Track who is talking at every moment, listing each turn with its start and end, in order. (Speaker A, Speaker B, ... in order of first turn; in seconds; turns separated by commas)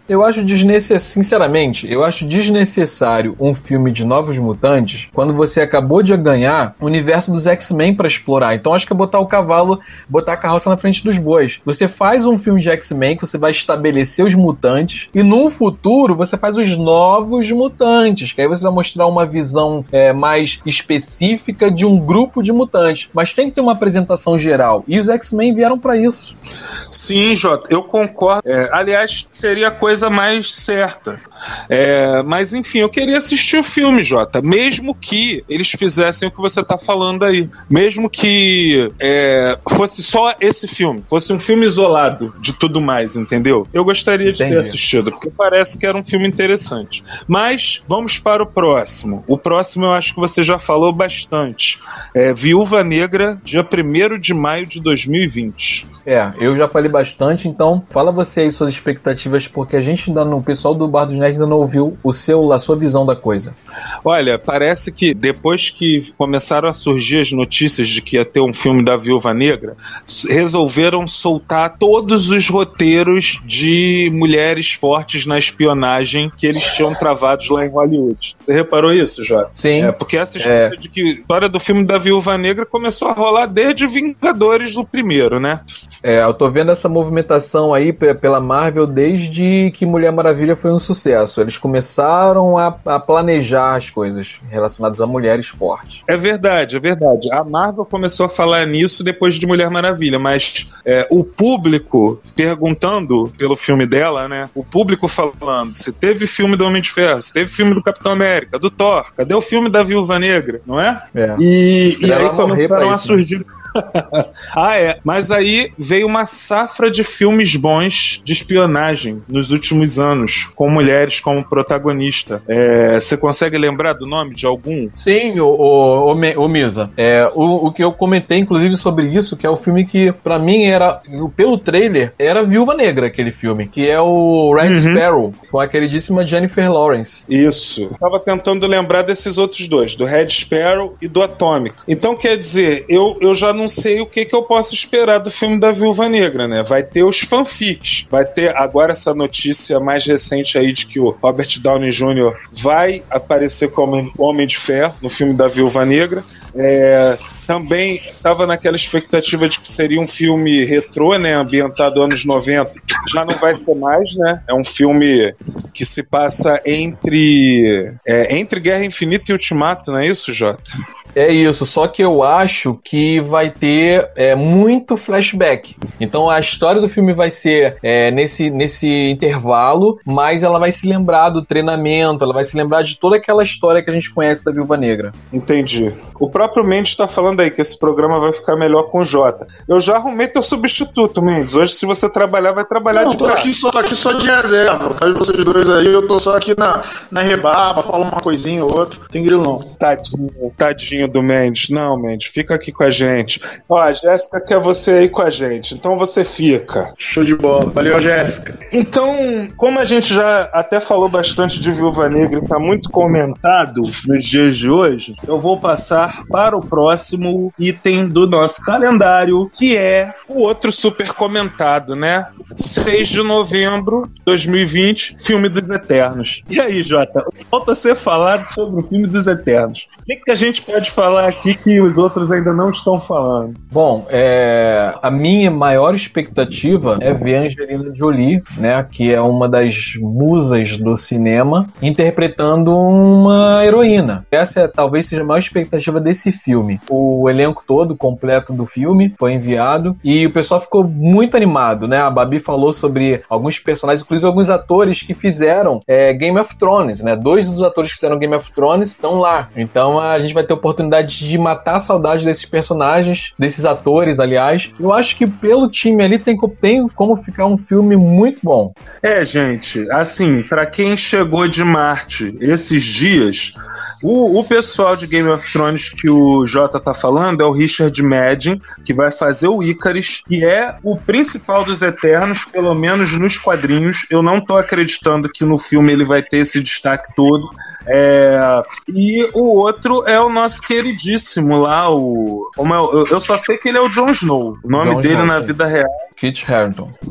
Speaker A: 0.1-26.3, Speaker B: 26.9-55.9, Speaker A: 44.4-44.8, Speaker A: 56.1-63.5, Speaker B: 64.0-85.6, Speaker A: 79.6-80.7, Speaker A: 86.0-96.0, Speaker B: 96.1-124.9, Speaker A: 111.1-111.4, Speaker A: 112.0-113.2, Speaker A: 125.0-137.2, Speaker B: 134.6-135.0, Speaker B: 137.3-170.6, Speaker A: 171.2-185.1, Speaker B: 185.3-193.5, Speaker C: 192.9-199.7, Speaker B: 199.8-206.9, Speaker C: 207.0-208.6, Speaker B: 208.7-233.6, Speaker A: 233.7-268.7, Speaker B: 269.0-295.9, Speaker A: 294.7-295.6, Speaker A: 296.2-296.9